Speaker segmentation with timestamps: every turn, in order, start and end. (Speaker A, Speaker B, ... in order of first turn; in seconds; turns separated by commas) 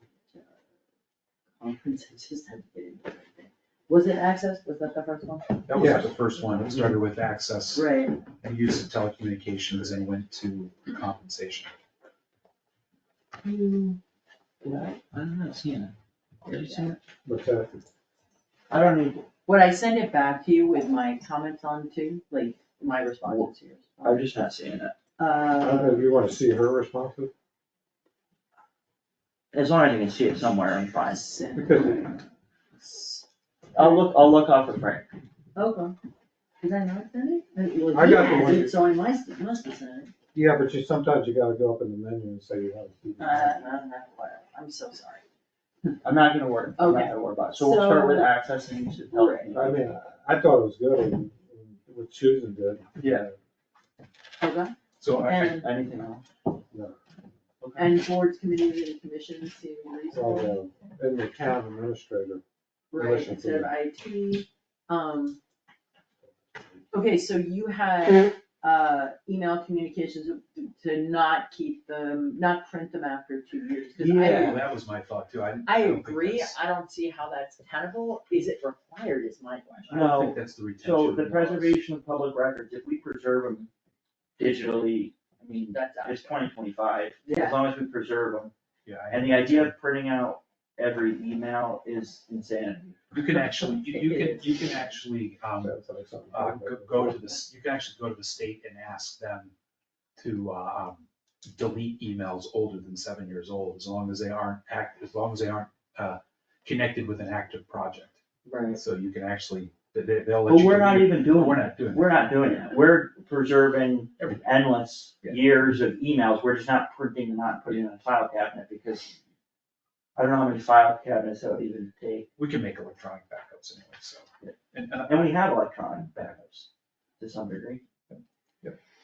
Speaker A: 1.6-5.7, Speaker B: 5.7-7.9, Speaker C: 5.8-6.2, Speaker A: 7.7-8.2, Speaker B: 8.4-11.7, Speaker A: 13.4-13.9, Speaker D: 13.5-14.0, Speaker D: 14.6-17.0, Speaker A: 16.5-16.9, Speaker C: 17.2-17.8, Speaker D: 18.7-19.3, Speaker A: 19.5-24.2, Speaker D: 24.0-24.9, Speaker A: 25.2-26.1, Speaker C: 25.6-27.3, Speaker D: 29.5-31.3, Speaker A: 31.0-32.2, Speaker C: 31.6-32.1, Speaker A: 32.8-33.2, Speaker D: 33.7-35.1, Speaker A: 33.8-34.0, Speaker A: 35.6-36.0, Speaker A: 36.6-40.1, Speaker C: 37.9-38.8, Speaker C: 40.3-43.6, Speaker A: 43.2-45.2, Speaker D: 46.0-49.8, Speaker A: 46.8-48.3, Speaker A: 49.1-49.6, Speaker C: 49.5-53.4, Speaker D: 53.0-53.3, Speaker A: 54.4-55.7, Speaker B: 55.0-55.6, Speaker D: 55.4-56.2, Speaker D: 57.6-57.9, Speaker A: 57.8-60.6, Speaker C: 60.1-62.4, Speaker A: 62.9-65.4, Speaker C: 63.0-63.7, Speaker A: 66.9-74.7, Speaker D: 74.0-74.6, Speaker B: 74.3-76.6, Speaker A: 75.7-80.3, Speaker D: 79.9-83.7, Speaker B: 80.1-81.8, Speaker D: 84.4-88.5, Speaker A: 85.7-86.3, Speaker A: 87.2-87.6, Speaker B: 88.9-89.8, Speaker D: 89.1-93.0, Speaker B: 93.1-95.7, Speaker A: 93.5-94.9, Speaker C: 95.6-97.2, Speaker B: 96.3-99.5, Speaker B: 100.2-108.2, Speaker A: 108.5-108.8, Speaker B: 108.7-112.1, Speaker D: 110.5-119.1, Speaker D: 120.2-122.3, Speaker B: 122.4-125.3, Speaker D: 125.1-126.7, Speaker D: 127.2-127.8, Speaker B: 128.1-128.8